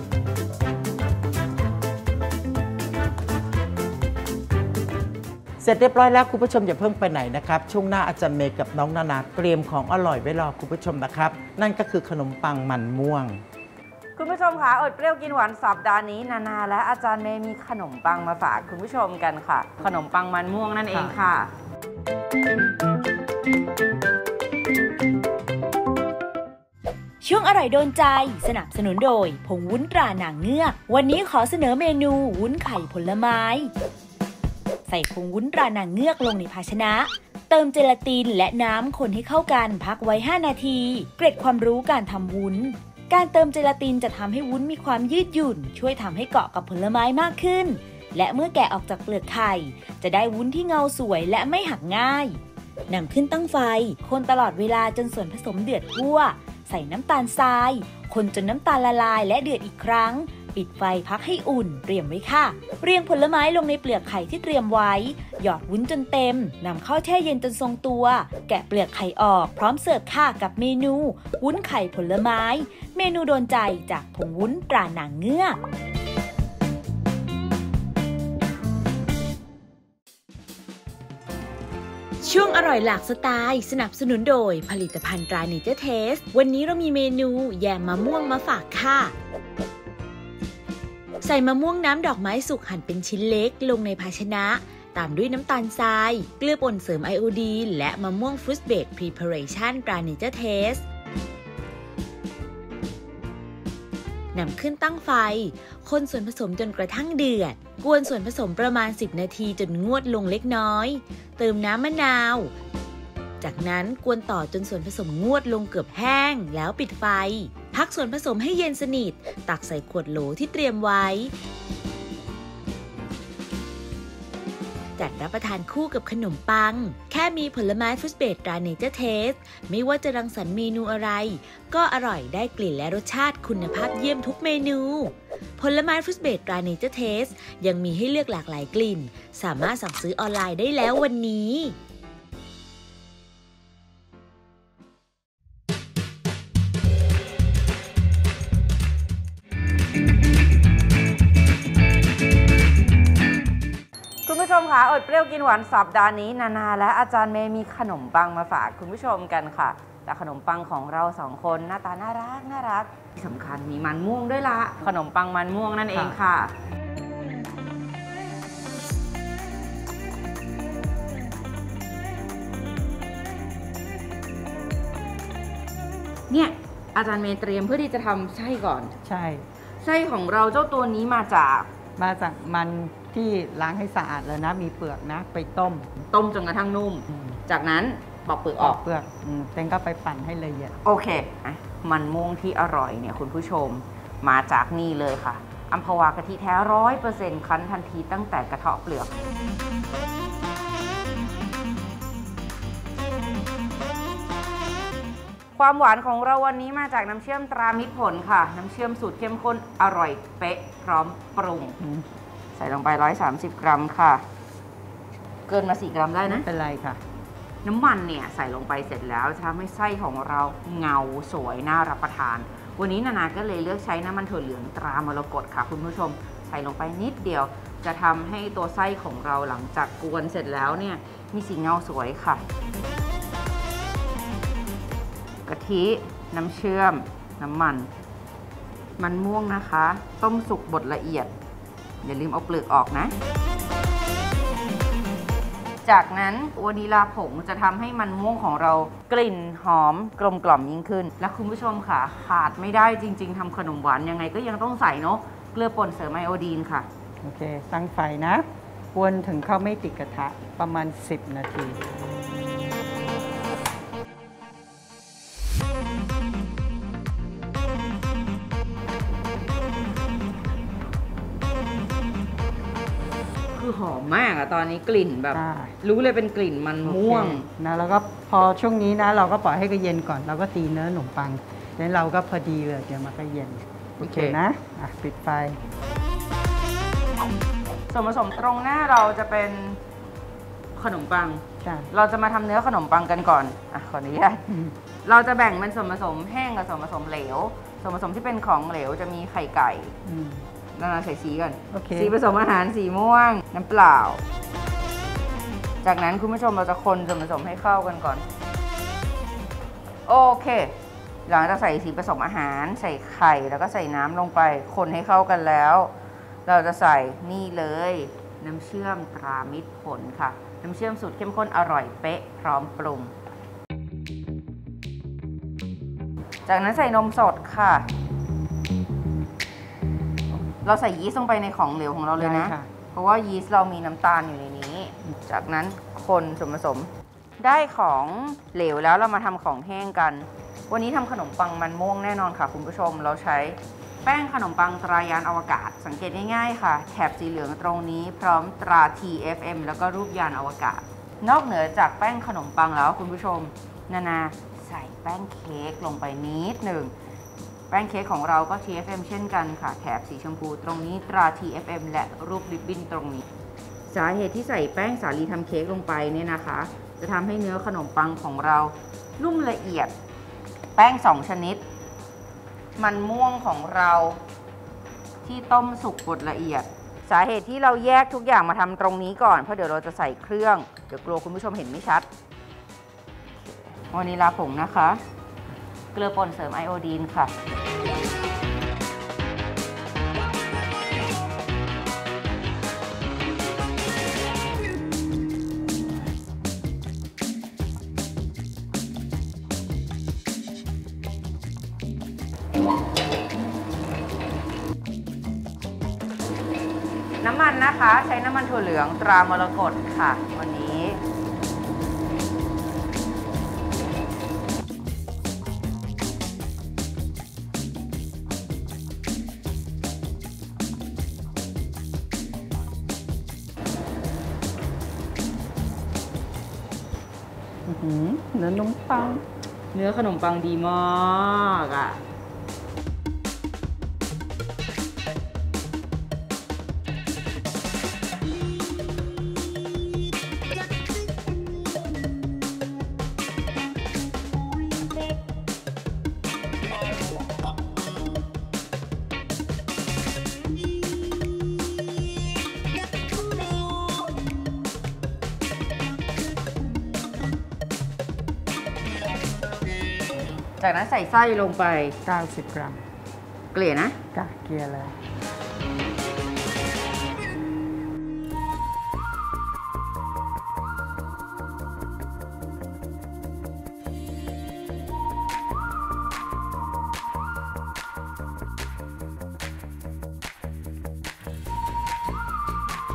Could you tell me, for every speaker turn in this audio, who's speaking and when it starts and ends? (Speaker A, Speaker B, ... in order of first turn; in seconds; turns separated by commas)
Speaker A: 5.6-13.4, Speaker B: 14.2-21.5, Speaker C: 27.2-33.7, Speaker C: 34.9-75.6, Speaker C: 82.2-89.2, Speaker C: 91.2-100.8, Speaker C: 104.3-112.5, Speaker C: 113.4-121.3, Speaker C: 125.0-141.8, Speaker B: 154.3-166.6, Speaker B: 176.3-178.9, Speaker D: 179.1-179.5, Speaker B: 179.8-181.7, Speaker D: 182.0-185.9, Speaker B: 186.1-188.8, Speaker D: 187.1-187.4, Speaker D: 188.6-190.8, Speaker B: 190.8-199.3, Speaker B: 205.6-211.8, Speaker D: 211.8-212.1, Speaker B: 212.6-214.2, Speaker B: 215.5-216.5, Speaker D: 216.3-217.0, Speaker B: 217.6-232.4, Speaker B: 235.5-237.9, Speaker B: 239.0-241.3, Speaker B: 242.0-243.1, Speaker B: 245.8-256.9, Speaker D: 257.2-261.8, Speaker B: 273.6-277.5, Speaker D: 275.3-275.7, Speaker D: 276.8-285.6, Speaker B: 284.0-284.4, Speaker B: 287.9-289.8, Speaker B: 290.8-294.4, Speaker D: 291.6-291.9, Speaker D: 294.5-294.8, Speaker B: 295.1-299.9, Speaker D: 300.1-300.4, Speaker B: 300.8-304.2, Speaker D: 301.7-302.1, Speaker B: 305.8-308.2, Speaker B: 310.1-310.8, Speaker B: 311.3-315.9, Speaker B: 316.5-323.1, Speaker B: 326.5-327.9, Speaker B: 330.6-356.9, Speaker D: 332.2-332.7, Speaker B: 357.7-363.2, Speaker B: 363.9-369.9, Speaker B: 370.8-371.6, Speaker B: 372.8-374.2, Speaker B: 375.2-382.1, Speaker B: 383.4-385.0, Speaker B: 385.9-387.3, Speaker B: 407.2-411.0, Speaker D: 427.7-429.2, Speaker B: 429.7-432.0, Speaker B: 460.6-462.0, Speaker D: 462.1-462.8, Speaker B: 463.5-464.0, Speaker D: 464.1-465.0